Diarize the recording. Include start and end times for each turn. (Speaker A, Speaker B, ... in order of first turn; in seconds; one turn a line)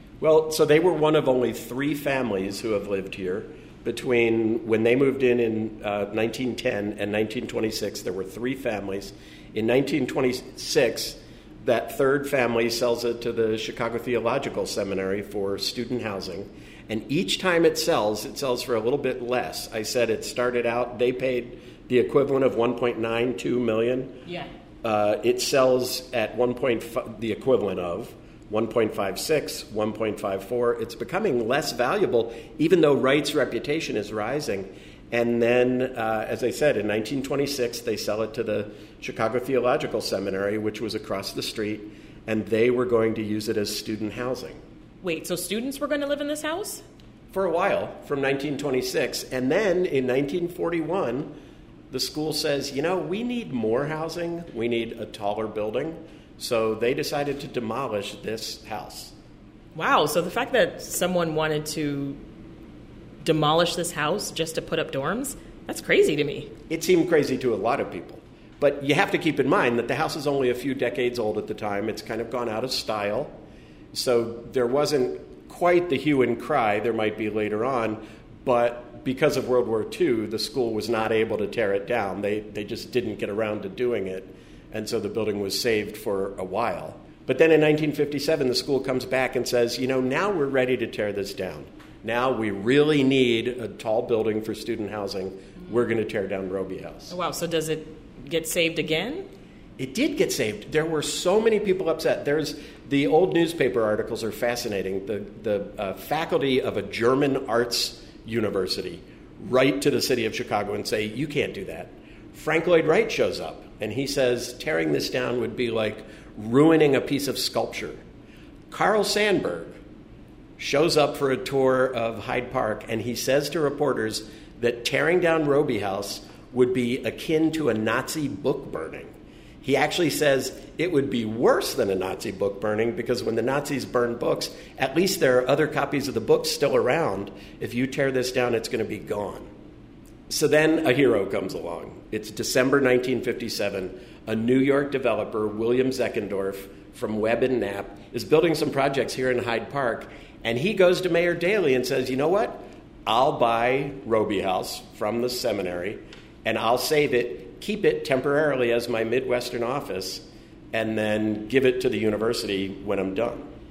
Speaker A: 0.2-24.2
Speaker A: 24.8-44.6
Speaker B: 45.0-46.8
Speaker A: 47.3-51.3
Speaker A: 51.9-59.1
Speaker B: 59.7-62.2
Speaker B: 63.2-66.5
Speaker A: 66.7-73.4
Speaker A: 73.9-97.1
Speaker B: 97.1-99.3
Speaker A: 99.8-118.0
Speaker A: 118.7-119.8
Speaker A: 120.6-139.5
Speaker A: 140.3-163.5